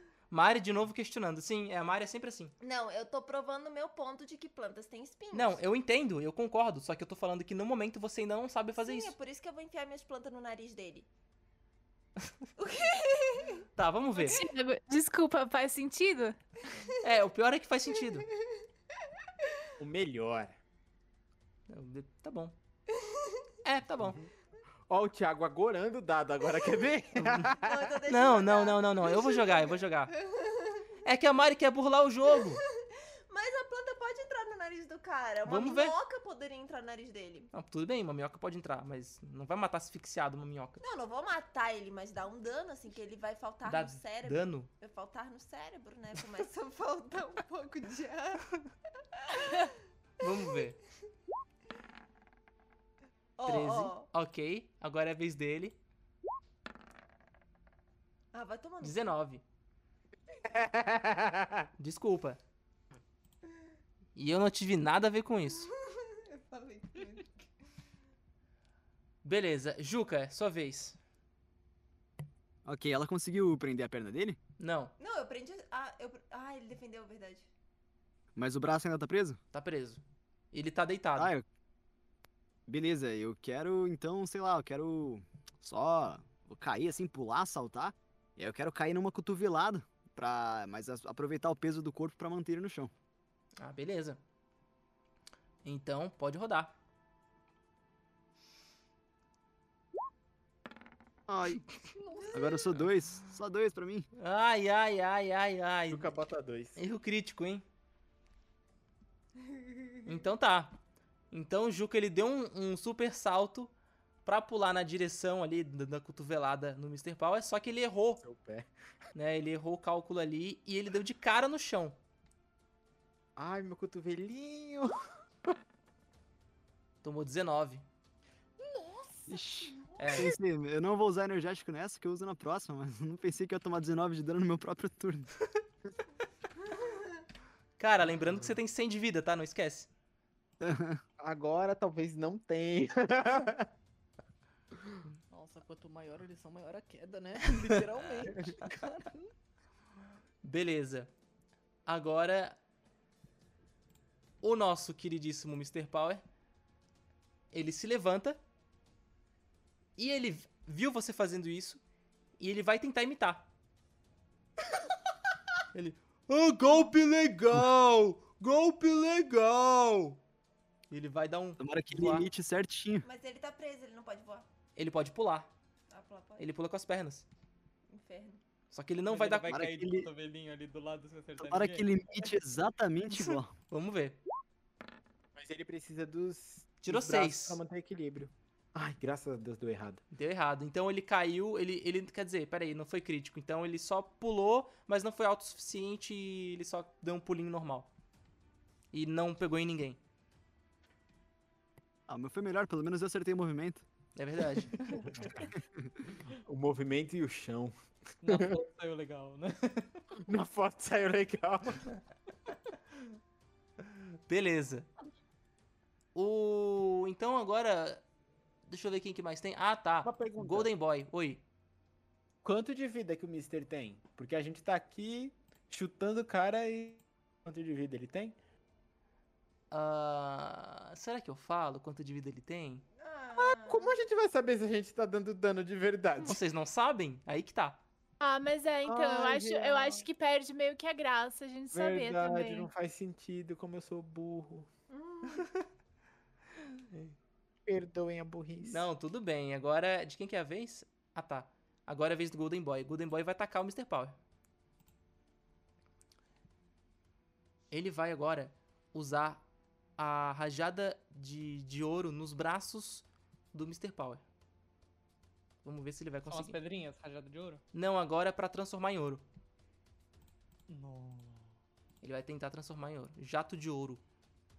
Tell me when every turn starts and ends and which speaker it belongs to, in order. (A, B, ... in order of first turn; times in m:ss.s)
0:00.3-0:02.5 A
0:02.6-0:05.6 B
0:05.3-0:09.2 A
0:08.8-0:11.1 B
0:12.6-0:13.7 B
0:13.8-0:14.4 A
0:14.2-0:16.4 C
0:17.0-0:18.3 A
0:19.8-0:20.6 D
0:21.7-0:22.6 A
0:22.9-0:23.4 B
0:23.6-0:24.2 A
0:24.0-0:24.3 D
0:24.9-0:28.0 D
0:27.2-0:27.5 A
0:27.6-0:31.0 B
0:28.1-0:30.1 A
0:31.0-0:32.6 A
0:32.3-0:32.6 B
0:33.3-0:37.5 B
0:35.5-0:36.0 A
0:37.5-0:40.8 A
0:40.8-0:48.5 B
0:43.7-0:44.7 A
0:49.2-0:49.8 B
0:50.2-0:50.8 A
0:53.4-0:54.1 B
0:53.5-0:55.8 A
0:58.3-0:59.1 B
0:58.8-0:59.4 A
1:00.4-1:01.7 D
1:01.8-1:02.4 A
1:04.2-1:05.7 A
1:05.9-1:07.4 B
1:09.2-1:11.0 A
1:12.6-1:14.4 E
1:14.6-1:14.9 A
1:15.0-1:17.5 B
1:18.4-1:19.4 E
1:19.5-1:20.0 A
1:20.5-1:21.3 A
1:21.2-1:21.4 E
1:22.7-1:32.9 E
1:33.6-1:34.2 A
1:35.6-1:36.8 A
1:41.3-1:41.7 E
1:42.0-1:42.6 F
1:42.3-1:44.1 E
1:44.1-1:46.1 A
1:45.9-1:46.8 D
1:46.8-1:47.6 A
1:50.0-1:50.8 A
1:51.3-1:53.7 A
1:54.2-1:58.2 A
1:58.2-1:58.7 D
1:59.2-2:02.0 A
2:03.4-2:05.0 D
2:07.0-2:07.8 A
2:08.6-2:09.9 F
2:09.3-2:15.3 E
2:10.0-2:10.3 A
2:17.8-2:19.9 A
2:20.6-2:21.0 E
2:21.2-2:23.7 D
2:25.3-2:29.3 F
2:30.4-2:31.1 A
2:31.9-2:32.6 A
2:34.4-2:36.2 A
2:37.5-2:38.4 A
2:40.0-2:41.8 A
2:42.4-2:43.5 A
2:45.7-2:50.2 A
2:50.9-2:52.3 A
2:51.6-2:53.1 E
2:53.0-2:54.5 B
2:54.8-2:55.5 A
2:55.9-2:56.5 B
2:56.4-2:57.3 A
2:57.9-2:58.4 B
2:58.7-2:59.6 A
2:59.1-3:01.9 F
2:59.5-3:00.1 E
3:01.4-3:03.5 E
3:03.2-3:04.2 A
3:05.4-3:10.0 D
3:06.8-3:07.6 A
3:10.1-3:17.9 A
3:18.9-3:20.0 A
3:22.1-3:23.8 E
3:24.2-3:25.2 A
3:26.4-3:27.7 D
3:28.2-3:30.0 F
3:28.2-3:28.6 D
3:30.2-3:31.9 D
3:34.3-3:34.9 A
3:36.2-3:38.0 A
3:38.7-3:41.4 A
3:40.0-3:40.7 D
3:42.4-3:48.4 D
3:49.7-3:52.8 A
3:53.0-3:54.0 B
3:53.4-3:56.4 D
3:56.2-3:57.8 A
3:58.2-4:02.7 C
3:58.8-4:00.1 D
4:01.7-4:04.7 D
4:04.9-4:05.5 B
4:07.7-4:08.9 D
4:08.7-4:14.2 A
4:17.7-4:19.4 A
4:20.0-4:24.2 A
4:25.6-4:26.6 A
4:26.3-4:27.6 F
4:27.7-4:29.2 A
4:30.7-4:31.6 F
4:32.0-4:34.0 A